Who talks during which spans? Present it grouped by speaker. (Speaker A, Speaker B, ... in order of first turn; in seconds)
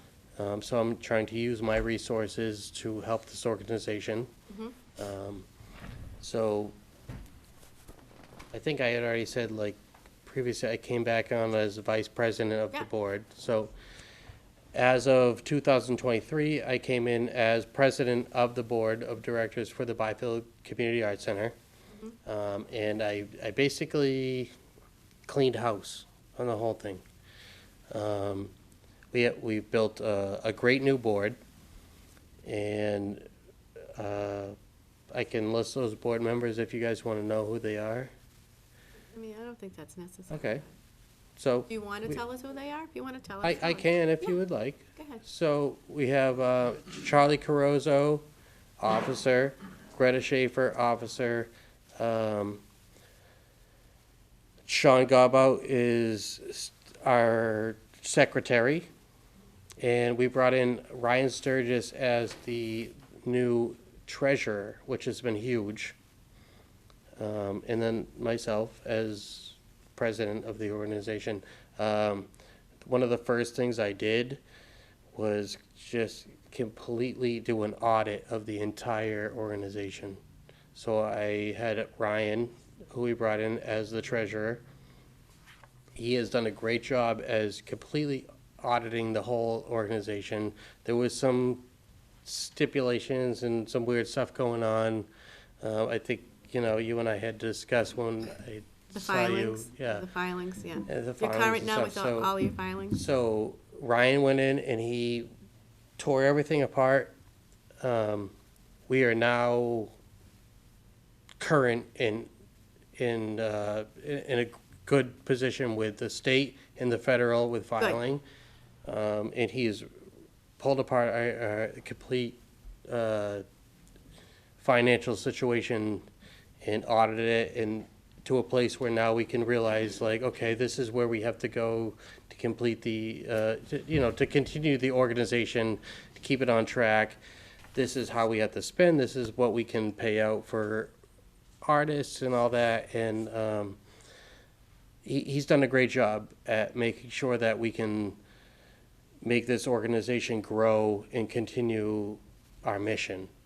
Speaker A: 0.4-4.3, 5.0-5.5, 6.2-6.8, 8.5-13.7, 14.7-21.6, 22.2-24.5, 25.3-27.0, 27.9-28.5, 29.1-31.4, 32.5-33.3, 34.0-34.6, 35.1-38.1, 40.3-40.6, 41.4-42.2, 43.4-48.3, 48.8-52.6, 54.7-58.9, 59.8-66.0, 67.2-72.3, 72.8-74.4, 75.1-80.2, 80.7-84.6, 86.0-91.7, 92.2-95.1, 95.6-100.1, 100.9-102.3, 102.9-105.3, 106.0-107.1, 107.8-108.3, 108.9-109.9, 111.4-112.3, 113.0-118.2, 118.9-119.9, 120.6-123.4, 124.6-126.1, 126.6-137.2, 137.8-140.9, 141.6-143.8, 145.1-148.2, 149.2-153.3
Speaker B: 4.5-4.8, 39.1-40.6, 41.7-44.3, 45.0-45.2, 98.9-103.0